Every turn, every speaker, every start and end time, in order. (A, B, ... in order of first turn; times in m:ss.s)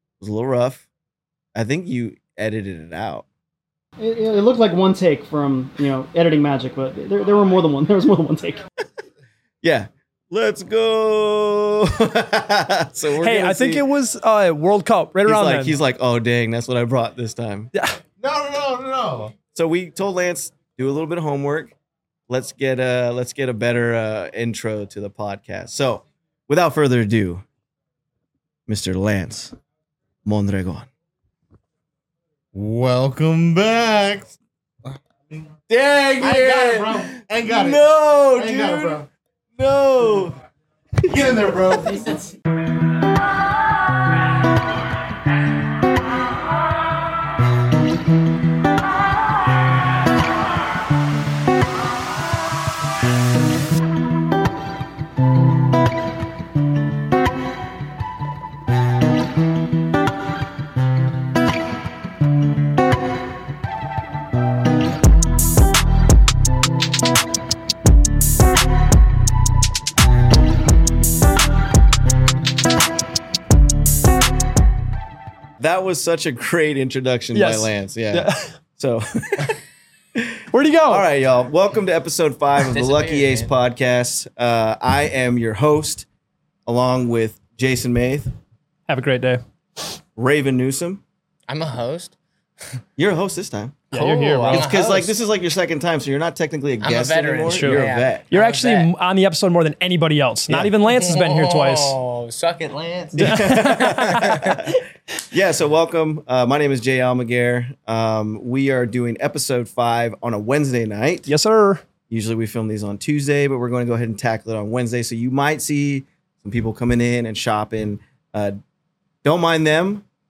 0:00.2-0:00.8 A
0:01.6-0:03.2 A
0:04.0-0:08.6 B
0:09.6-0:13.8 A
0:13.2-0:15.8 C
0:15.3-0:17.7 A
0:17.7-0:18.0 C
0:18.2-0:19.3 D
0:18.9-0:21.8 A
0:22.3-0:27.4 A
0:28.7-0:29.6 A
0:30.2-0:30.9 A
0:32.6-0:34.3 D
0:32.7-0:34.2 A
0:35.7-0:39.0 A
0:36.2-0:37.8 D
0:38.4-0:39.1 D
0:39.6-0:40.4 A
0:41.0-0:41.8 A
0:41.1-0:42.1 D
1:15.6-1:19.6 A
1:17.3-1:18.5 C
1:20.2-1:26.1 A
1:20.5-1:21.0 C
1:22.7-1:23.5 E
1:26.7-1:28.3 A
1:28.9-1:29.4 C
1:30.2-1:31.0 A
1:31.5-1:32.8 E
1:33.0-1:33.8 A
1:33.9-1:34.7 C
1:33.9-1:35.1 E
1:34.5-1:38.2 A
1:36.8-1:38.9 E
1:37.5-1:42.0 C
1:40.8-1:44.6 E
1:43.2-1:44.8 A
1:43.2-1:44.5 C
1:45.3-1:51.3 A
1:51.3-1:51.8 C
1:52.1-1:58.6 A
1:59.2-2:00.0 A